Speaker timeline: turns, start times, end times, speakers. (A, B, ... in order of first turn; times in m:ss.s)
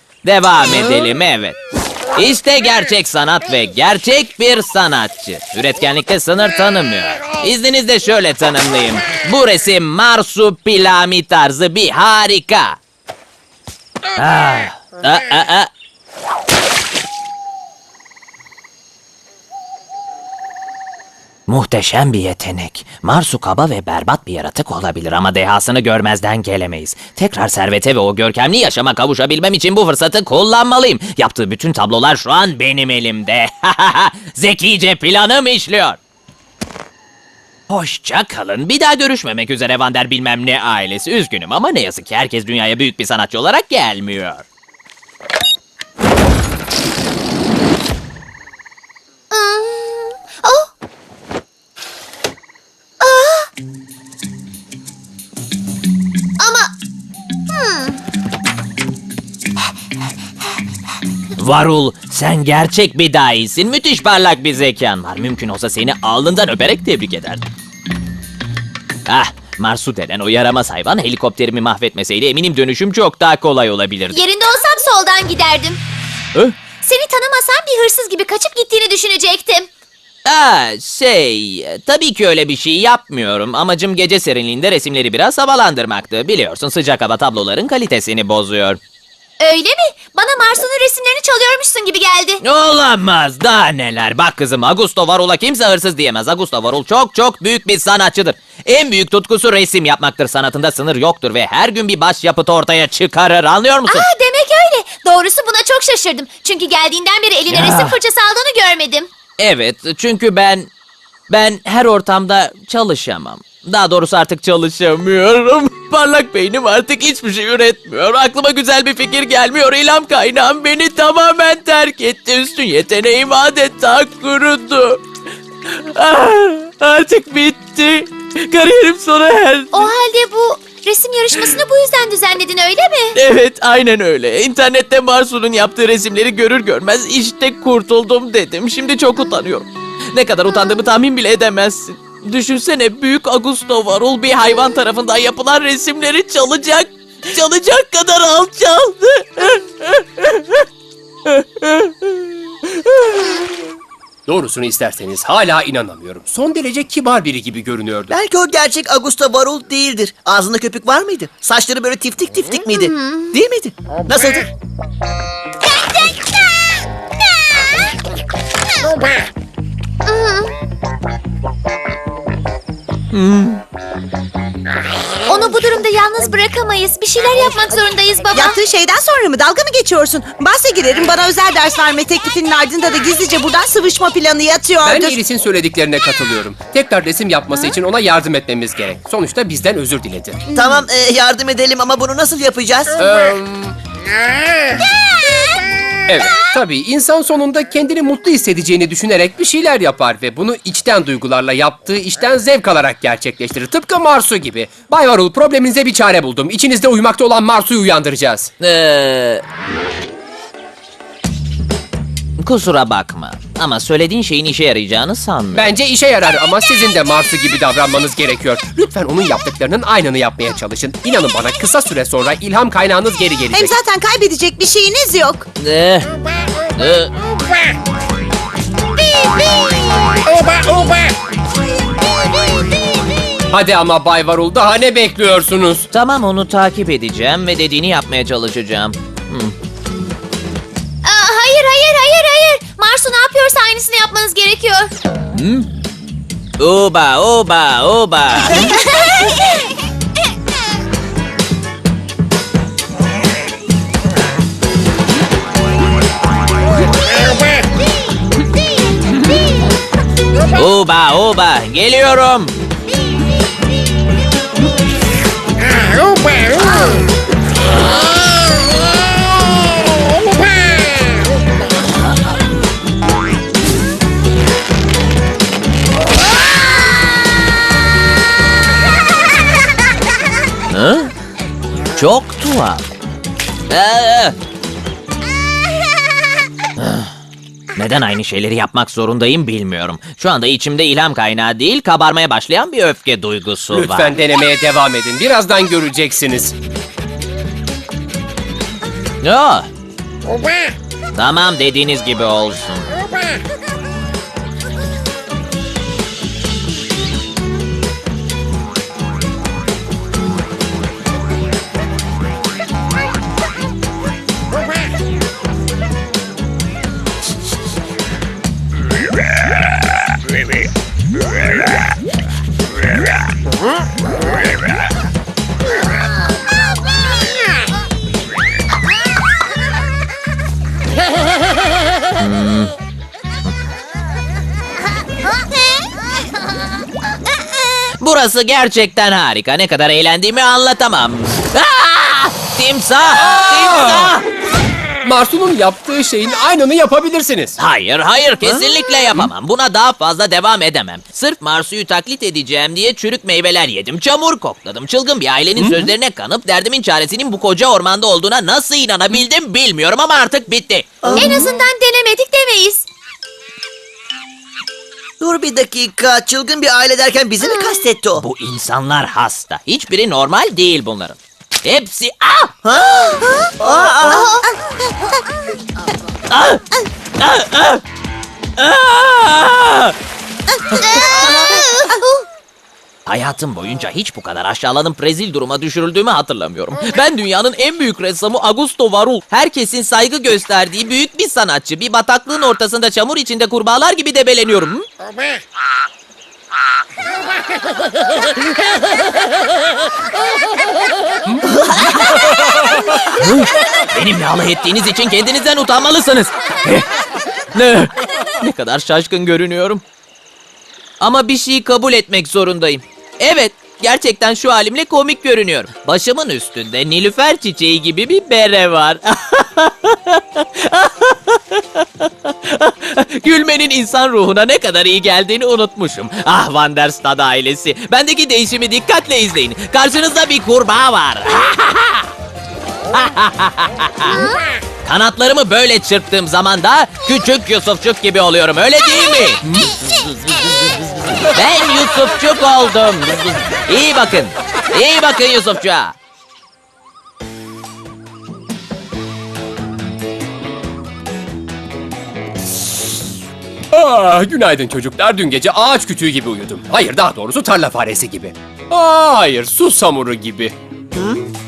0:00.2-0:01.6 A
0:02.1-0:12.8 A
0:14.1-0:15.7 A
0:21.5-0:36.0 A
0:37.7-0:44.4 A
0:49.3-0:50.7 B
0:53.0-0:53.5 B
0:56.4-0:56.7 B
0:57.5-0:58.0 B
1:01.4-1:07.5 A
1:09.1-1:14.2 A
1:14.1-1:15.8 B
1:16.8-1:19.7 B
1:20.2-1:28.8 A
1:29.4-1:32.4 B
1:32.4-1:44.1 A
1:43.9-1:49.1 B
1:47.5-1:48.0 A
1:49.4-1:50.7 A
1:51.3-2:05.0 A
2:05.6-2:09.9 A
2:09.7-2:13.2 B
2:13.1-2:30.7 A
2:31.2-2:33.3 A
2:34.2-2:38.1 C
2:38.1-2:44.5 D
2:42.8-2:43.3 B
2:50.0-2:50.5 B
2:53.1-2:53.6 A
2:55.3-2:58.6 B
2:58.3-3:05.2 E
3:04.8-3:10.4 C
3:10.5-3:10.8 E
3:10.5-3:13.0 D
3:13.0-3:13.8 C
3:16.1-3:28.5 C
3:28.6-3:29.4 A
3:32.4-3:35.7 A
3:35.5-3:43.8 C
3:43.5-3:45.5 E
3:45.6-3:46.2 A
3:46.8-3:47.1 A
3:53.5-3:55.9 C
3:55.9-3:59.5 A
4:01.0-4:04.9 B
4:05.3-4:05.7 A
4:06.6-4:08.8 A
4:08.6-4:09.6 B
4:20.5-4:22.5 A
4:40.7-4:41.1 A
4:42.0-4:42.9 A
4:43.7-4:44.4 A
4:46.8-4:47.1 A
4:47.8-4:54.2 A
4:53.7-4:56.5 C
4:59.2-4:59.7 A
5:01.1-5:02.9 A
5:32.2-5:32.7 A
5:38.0-5:44.2 A
5:43.2-5:44.2 C
5:45.0-5:47.6 C
5:47.6-6:01.1 A
5:55.6-5:55.9 C
6:01.0-6:01.6 D
6:01.1-6:02.9 B
6:05.2-6:08.2 D
6:08.2-6:12.5 A
6:12.6-6:14.4 D
6:14.2-6:14.4 E
6:16.3-6:17.8 A
6:18.6-6:20.0 A
6:20.7-6:21.3 E
6:21.0-6:22.2 B
6:23.0-6:34.8 A
6:43.1-6:46.9 A
6:47.5-6:49.8 A
6:51.0-7:12.1 A
7:12.9-7:14.3 A
7:14.8-7:26.0 A
7:33.7-7:40.5 C
7:40.9-7:41.3 D